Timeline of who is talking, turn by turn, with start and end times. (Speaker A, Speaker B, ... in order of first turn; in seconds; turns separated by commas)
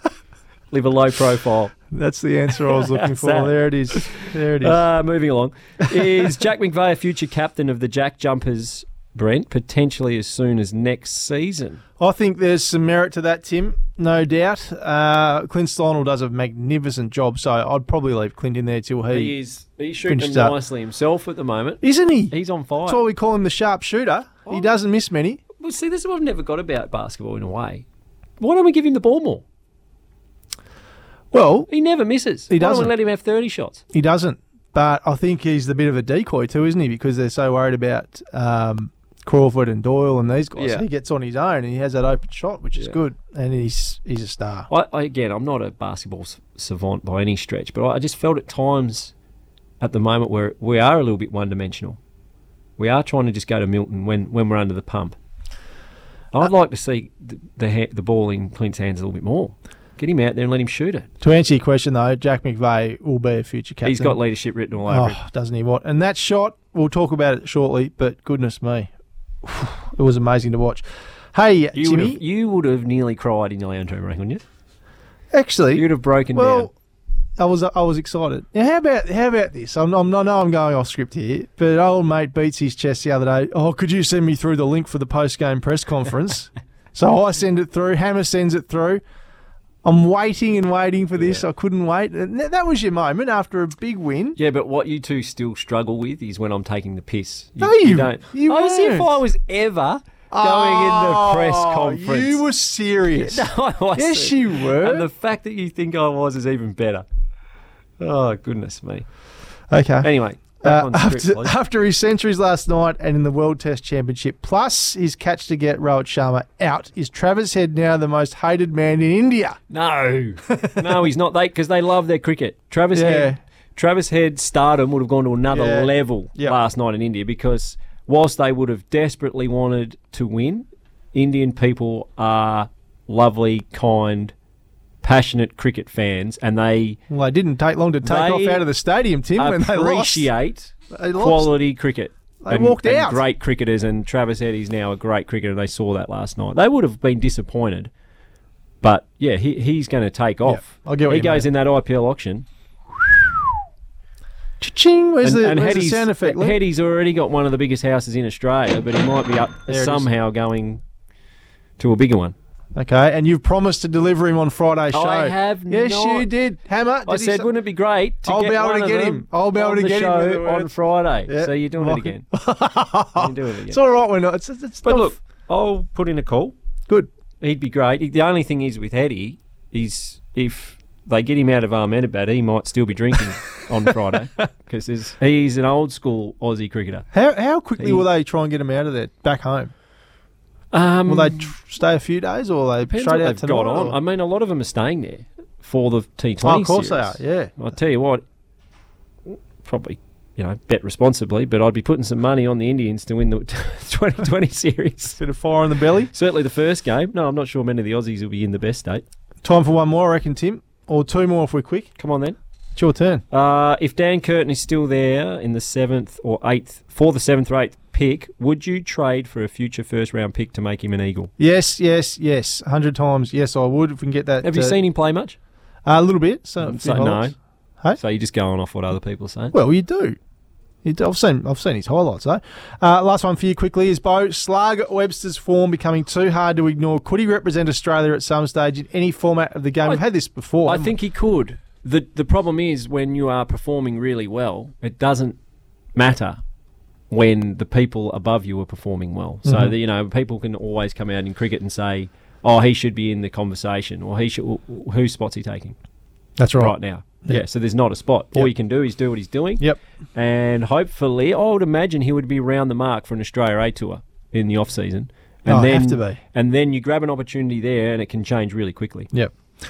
Speaker A: 0.7-1.7, Speaker B: 1.9-4.8, Speaker A: 2.6-11.8, Speaker B: 5.8-6.3, Speaker B: 12.0-19.3, Speaker A: 19.1-23.0, Speaker B: 20.0-20.6, Speaker B: 21.8-22.3, Speaker B: 22.8-25.4, Speaker A: 25.6-27.8, Speaker A: 28.4-29.4, Speaker B: 31.3-31.7, Speaker A: 31.7-33.8, Speaker B: 32.5-32.9, Speaker B: 33.9-44.7, Speaker A: 40.5-40.9, Speaker A: 44.7-49.1, Speaker A: 49.8-52.0, Speaker A: 52.8-55.2, Speaker A: 56.3-61.1, Speaker B: 61.2-64.2, Speaker A: 63.8-65.2, Speaker B: 64.8-68.9, Speaker B: 69.4-72.2, Speaker A: 71.7-74.4, Speaker B: 75.3-76.7, Speaker A: 75.7-76.7, Speaker B: 77.4-89.0, Speaker B: 89.8-94.4, Speaker A: 91.2-91.5, Speaker A: 94.3-102.4, Speaker B: 97.6-99.2, Speaker B: 100.3-105.1, Speaker A: 103.2-107.0, Speaker A: 108.0-109.0, Speaker B: 109.7-110.1, Speaker A: 110.0-111.5, Speaker B: 110.6-119.6, Speaker A: 119.7-134.3, Speaker B: 120.5-121.0, Speaker B: 122.9-123.4, Speaker B: 125.5-126.6, Speaker A: 135.0-137.0, Speaker B: 137.1-140.3, Speaker A: 138.0-138.7, Speaker A: 139.3-147.9, Speaker B: 140.9-141.5, Speaker B: 142.4-143.2, Speaker A: 148.8-152.5, Speaker B: 150.4-151.5, Speaker B: 154.6-156.6, Speaker A: 155.2-160.8, Speaker B: 159.7-160.1, Speaker A: 161.8-162.3, Speaker B: 162.7-167.5, Speaker A: 164.9-166.3, Speaker A: 167.1-172.3, Speaker B: 168.2-170.7, Speaker B: 171.3-175.2, Speaker A: 173.1-173.8, Speaker A: 174.8-176.5, Speaker A: 177.4-187.1, Speaker B: 187.1-189.7, Speaker A: 187.8-188.1, Speaker A: 190.7-191.5, Speaker B: 191.1-194.0, Speaker A: 192.9-198.2, Speaker B: 196.4-197.6, Speaker A: 199.3-205.2, Speaker B: 205.2-206.1, Speaker A: 206.1-209.0, Speaker B: 209.4-211.9, Speaker A: 212.0-212.4, Speaker B: 212.8-213.2, Speaker A: 213.3-221.3, Speaker B: 221.4-224.8, Speaker A: 224.4-225.4, Speaker B: 225.8-228.0, Speaker A: 226.6-227.3, Speaker A: 227.9-229.6, Speaker B: 229.5-230.2, Speaker B: 230.8-241.0, Speaker A: 240.7-245.4, Speaker A: 245.9-246.4, Speaker A: 247.1-255.8, Speaker B: 249.4-249.7, Speaker B: 256.4-257.4, Speaker A: 256.5-269.1, Speaker B: 265.5-266.2